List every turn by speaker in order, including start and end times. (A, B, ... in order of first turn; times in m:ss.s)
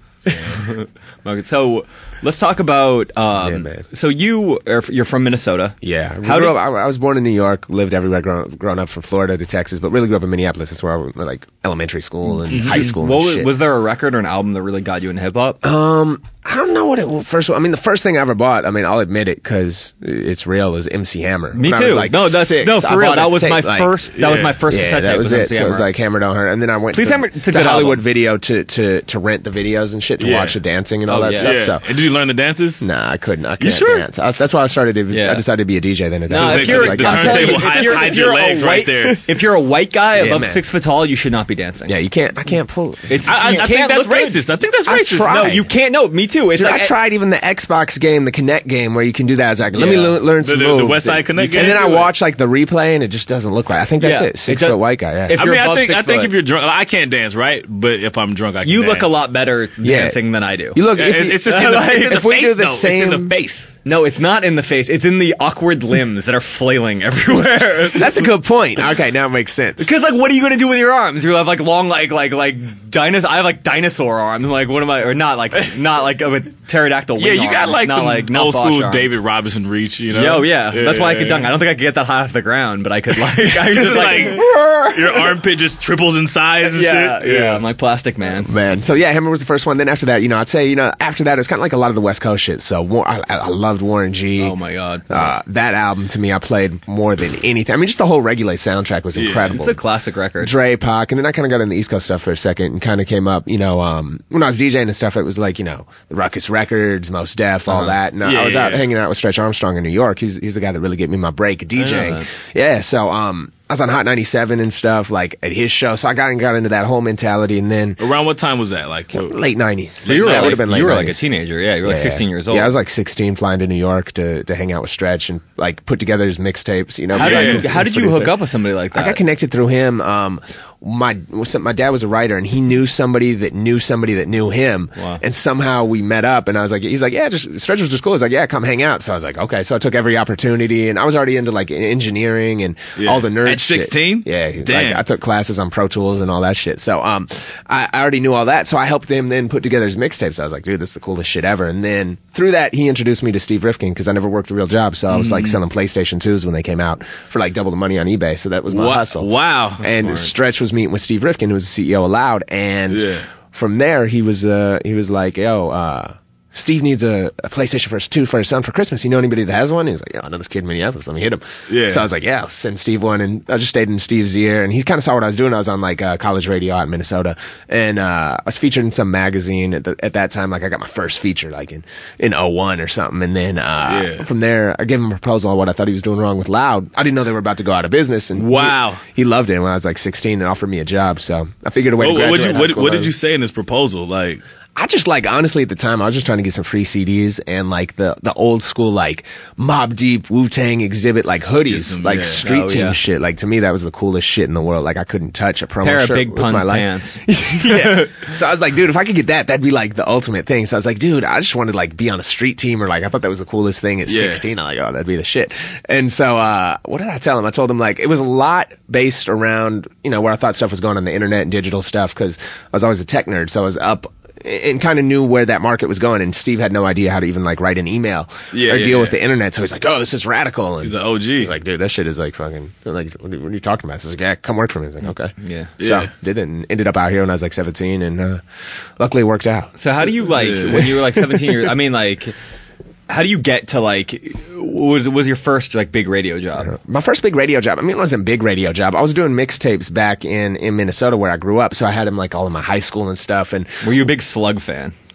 0:00.5-0:06.6 A
0:03.4-0:03.8 B
0:05.8-0:13.5 B
0:12.5-0:12.9 C
0:12.5-0:15.6 A
0:15.6-0:24.0 B
0:21.6-0:25.9 A
0:24.2-0:24.6 C
0:24.6-0:31.8 B
0:26.9-0:28.0 A
0:30.2-0:30.6 C
0:31.1-0:31.6 A
0:31.3-0:32.9 C
0:32.8-0:38.2 B
0:33.6-0:34.0 C
0:35.1-0:35.4 A
0:36.3-0:41.9 A
0:36.3-0:39.2 C
0:40.1-0:40.6 B
0:41.9-0:43.3 B
0:43.1-0:44.4 A
0:43.2-0:45.4 C
0:44.9-0:45.7 B
0:45.3-0:46.9 A
0:46.6-0:55.4 B
0:49.7-0:50.2 A
0:50.4-0:52.1 C
0:51.4-0:51.8 A
0:54.0-0:56.3 A
0:55.4-0:59.2 C
0:58.6-1:00.8 A
0:59.8-1:00.2 B
1:00.7-1:03.3 B
1:00.9-1:03.8 C
1:01.4-1:02.2 A
1:03.8-1:08.3 A
1:07.9-1:09.9 B
1:09.8-1:19.1 A
1:17.2-1:21.6 C
1:20.1-1:25.3 A
1:23.4-1:27.6 C
1:26.6-1:28.5 A
1:28.4-1:34.6 B
1:34.4-1:35.4 A
1:35.1-1:39.8 B
1:39.1-1:39.6 C
1:39.5-1:40.6 A
1:40.4-1:58.0 B
1:47.7-1:48.0 A
1:48.2-1:48.8 C
1:51.8-1:52.3 A
1:58.0-1:59.4 C
1:59.1-2:01.2 B
2:00.0-2:00.7 C
2:00.0-2:02.7 A
2:01.8-2:08.4 B
2:07.1-2:09.2 A
2:07.2-2:07.7 C
2:08.9-3:13.1 B
2:15.0-2:15.2 A
2:23.0-2:25.0 C
2:35.1-2:35.6 C
2:38.7-2:40.1 C
2:42.9-2:43.3 C
2:51.7-2:52.1 C
3:03.8-3:04.3 C
3:08.4-3:09.0 C
3:12.0-3:14.4 C
3:14.8-3:58.4 B
3:21.7-3:22.4 C
3:22.4-3:23.0 A
3:25.8-3:28.3 A
3:34.1-3:34.4 C
3:48.5-3:49.2 C
3:50.8-3:51.5 C
3:55.4-3:55.7 A
3:55.8-3:56.1 C
3:59.0-3:59.7 B
3:59.8-4:02.4 A
4:00.3-4:01.0 C
4:03.1-4:06.7 A
4:06.6-4:13.9 B
4:13.8-4:14.9 A